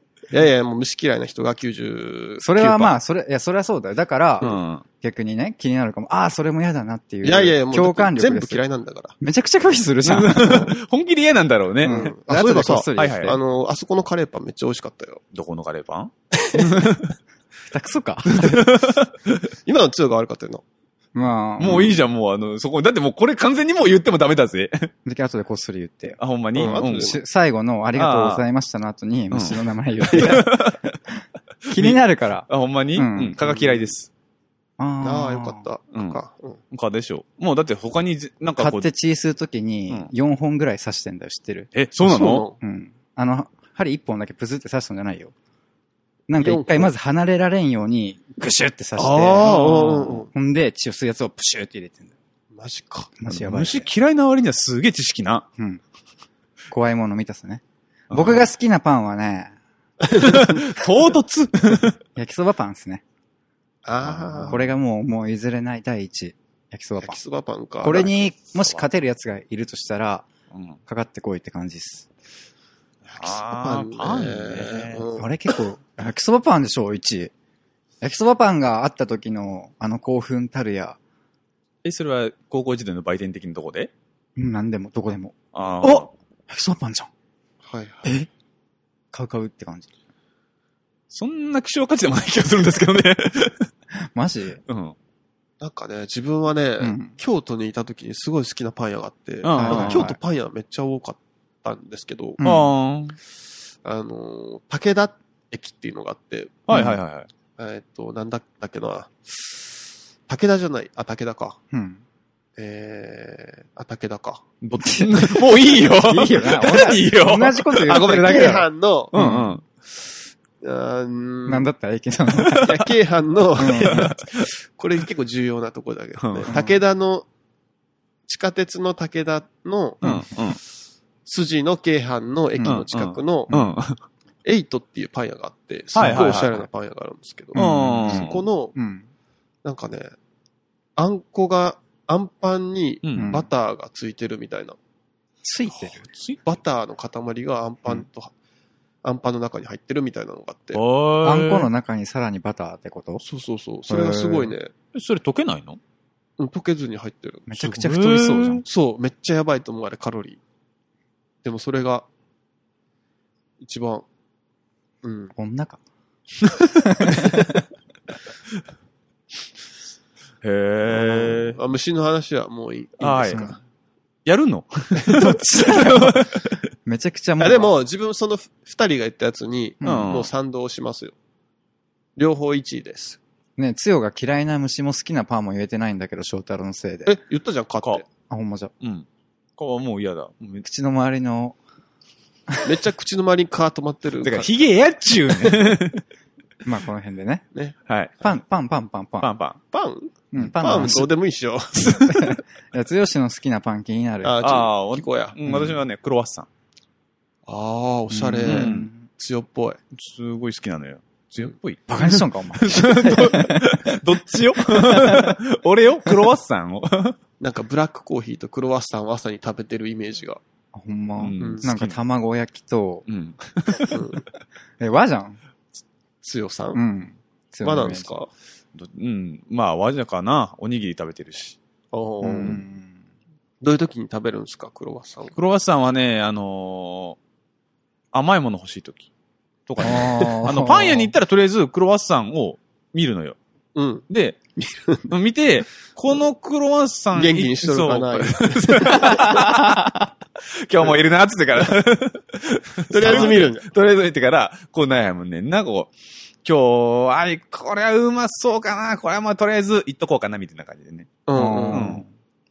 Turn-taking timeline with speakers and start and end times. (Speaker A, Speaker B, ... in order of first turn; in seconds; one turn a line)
Speaker A: 0.3-3.0
Speaker B: 2.4-8.6
Speaker C: 4.4-4.8
Speaker A: 7.2-9.1
Speaker B: 9.2-10.7
Speaker C: 10.0-12.0
Speaker B: 11.8-13.4
Speaker A: 11.8-15.2
Speaker C: 12.9-13.3
Speaker C: 15.3-17.1
Speaker A: 16.3-16.9
Speaker B: 17.7-18.7
Speaker C: 18.3-19.4
Speaker A: 19.6-20.6
Speaker B: 21.1-22.0
Speaker C: 21.6-24.9
Speaker B: 25.0-30.7
Speaker C: 26.2-27.1
Speaker A: 26.5-27.2
Speaker C: 27.9-28.4
Speaker C: 29.3-30.9
Speaker C: 31.7-34.1
Speaker B: 31.7-33.5
Speaker A: 33.4-33.9
Speaker B: 34.8-35.6
Speaker A: 35.0-36.6
Speaker C: 35.9-36.2
Speaker C: 36.7-38.9
Speaker B: 38.6-41.7
Speaker C: 41.7-42.4
Speaker A: 42.0-42.6
Speaker B: 42.6-45.3
Speaker B: 46.3-52.1
Speaker A: 46.4-46.9
Speaker A: 49.0-50.3
Speaker C: 49.4-50.2
Speaker A: 52.5-53.1
Speaker B: 53.2-53.9
Speaker C: 53.3-55.5
Speaker B: 56.7-59.5
Speaker C: 58.1-58.4
Speaker A: 60.0-60.8
Speaker C: 60.2-62.0
Speaker B: 62.1-63.0
Speaker A: 63.8-64.6
Speaker C: 64.0-64.7
Speaker B: 64.5-67.2
Speaker A: 67.0-68.1
Speaker B: 67.8-70.3
Speaker C: 68.5-68.8
Speaker C: 70.5-70.8
Speaker B: 70.9-72.1
Speaker C: 73.0-75.0
Speaker A: 73.2-75.3
Speaker B: 75.2-77.3
Speaker B: 78.0-81.0
Speaker C: 81.8-83.9
Speaker B: 84.3-87.1
Speaker C: 85.5-86.1
Speaker A: 87.6-88.1
Speaker B: 89.1-89.9
Speaker C: 91.1-93.7
Speaker B: 94.1-94.6
Speaker C: 94.7-94.9
Speaker A: 95.6-102.4
Speaker B: 96.8-97.1
Speaker C: 99.4-100.1
Speaker B: 99.5-100.2
Speaker B: 102.4-102.7
Speaker C: 102.4-103.2
Speaker A: 103.8-106.6
Speaker C: 106.7-107.3
Speaker B: 106.7-107.0
Speaker A: 107.6-109.7
Speaker A: 110.3-111.6
Speaker B: 111.7-112.0
Speaker A: 112.6-114.5
Speaker C: 114.6-118.3
Speaker B: 114.8-119.6
Speaker A: 117.8-119.1
Speaker C: 119.1-119.6
Speaker A: 120.6-121.7
Speaker B: 121.5-122.8
Speaker A: 122.4-127.2
Speaker B: 123.6-124.2
Speaker C: 123.8-124.5
Speaker C: 126.2-126.5
Speaker B: 126.5-126.7
Speaker A: 128.3-130.0
Speaker C: 130.0-130.6
Speaker A: 131.2-133.5
Speaker B: 132.6-132.8
Speaker C: 132.7-134.0
Speaker A: 134.4-138.7
Speaker C: 135.9-136.6
Speaker B: 136.0-136.4
Speaker C: 137.5-138.4
Speaker B: 137.5-139.0
Speaker A: 139.6-140.1
Speaker A: 140.9-144.8
Speaker C: 143.0-143.4
Speaker B: 143.2-143.4
Speaker B: 145.4-146.0
Speaker C: 146.0-146.4
Speaker A: 146.4-148.3
Speaker A: 149.0-150.8
Speaker C: 150.7-151.7
Speaker B: 151.2-153.2
Speaker A: 153.2-154.7
Speaker B: 153.9-154.5
Speaker C: 154.9-155.8
Speaker A: 156.4-157.5
Speaker B: 157.5-158.6
Speaker C: 157.6-158.6
Speaker A: 158.6-160.4
Speaker A: 161.4-162.1
Speaker A: 163.6-164.0
Speaker A: 165.0-165.3
Speaker B: 165.3-165.8
Speaker B: 166.8-167.5
Speaker C: 170.4-171.6
Speaker A: 170.9-173.6
Speaker C: 173.0-173.5
Speaker B: 173.3-173.6
Speaker C: 174.2-176.3
Speaker B: 175.1-176.3
Speaker B: 176.8-177.8
Speaker A: 177.4-181.1
Speaker B: 179.8-180.2
Speaker C: 179.8-180.3
Speaker A: 182.2-183.2
Speaker B: 183.6-187.2
Speaker A: 187.1-188.0
Speaker B: 188.3-188.7
Speaker C: 189.6-190.6
Speaker B: 190.6-191.6
Speaker A: 192.6-194.5
Speaker C: 194.2-196.0
Speaker B: 196.6-197.4
Speaker B: 198.2-199.3
Speaker C: 199.2-199.6
Speaker A: 199.7-202.0
Speaker B: 200.3-201.1
Speaker B: 201.8-204.4
Speaker A: 204.2-205.3
Speaker C: 204.4-206.5
Speaker B: 205.5-205.8
Speaker A: 207.4-209.8
Speaker B: 208.1-209.1
Speaker C: 208.4-208.9
Speaker C: 209.9-217.2
Speaker B: 211.9-213.9
Speaker B: 214.6-215.4
Speaker A: 217.4-220.4
Speaker B: 220.7-223.1
Speaker C: 221.2-222.0
Speaker A: 221.4-221.7
Speaker C: 223.1-224.0
Speaker A: 223.9-224.2
Speaker B: 224.8-225.4
Speaker A: 226.2-226.8
Speaker B: 226.7-228.2
Speaker A: 227.6-228.3
Speaker C: 228.7-231.6
Speaker A: 231.9-232.6
Speaker B: 232.2-232.9
Speaker A: 233.6-235.3
Speaker C: 235.3-237.2
Speaker C: 238.1-239.1
Speaker C: 239.7-243.4
Speaker B: 239.8-241.1
Speaker A: 243.7-244.0
Speaker C: 244.1-244.4
Speaker A: 244.6-245.1
Speaker C: 245.1-249.8
Speaker A: 247.1-249.5
Speaker C: 250.5-255.9
Speaker A: 252.9-253.7
Speaker B: 253.0-253.3
Speaker C: 256.4-261.1
Speaker A: 261.3-262.0
Speaker B: 261.3-262.1
Speaker C: 261.7-262.0